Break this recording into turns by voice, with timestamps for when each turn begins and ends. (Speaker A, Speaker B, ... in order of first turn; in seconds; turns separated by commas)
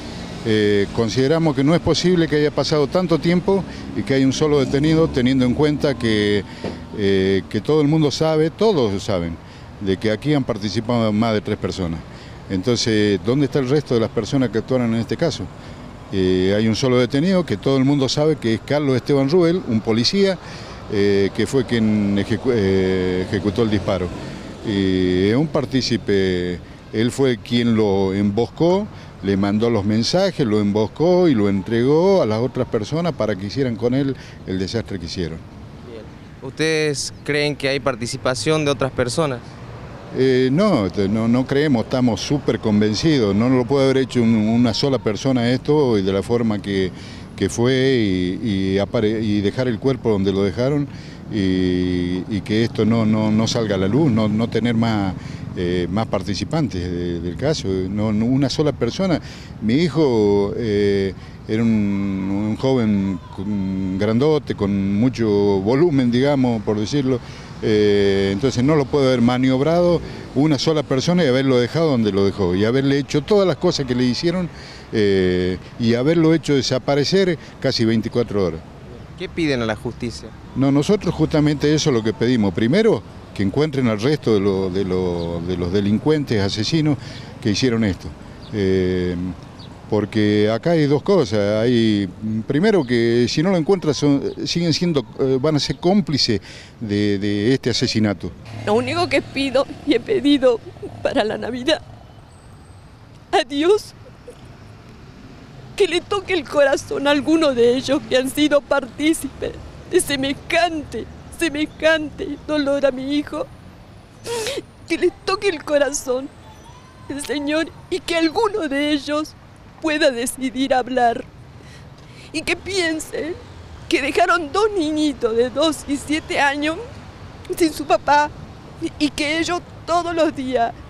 Speaker A: 0.4-15.5, Speaker A: 16.1-24.1, Speaker A: 24.6-35.4, Speaker B: 35.9-39.5, Speaker A: 40.1-78.6, Speaker B: 79.2-80.3, Speaker A: 80.5-89.4, Speaker A: 89.9-98.3, Speaker C: 98.7-101.8, Speaker C: 103.3-104.0, Speaker C: 105.8-113.5, Speaker C: 114.3-116.3, Speaker C: 117.1-121.3, Speaker C: 122.3-126.8, Speaker C: 127.5-130.8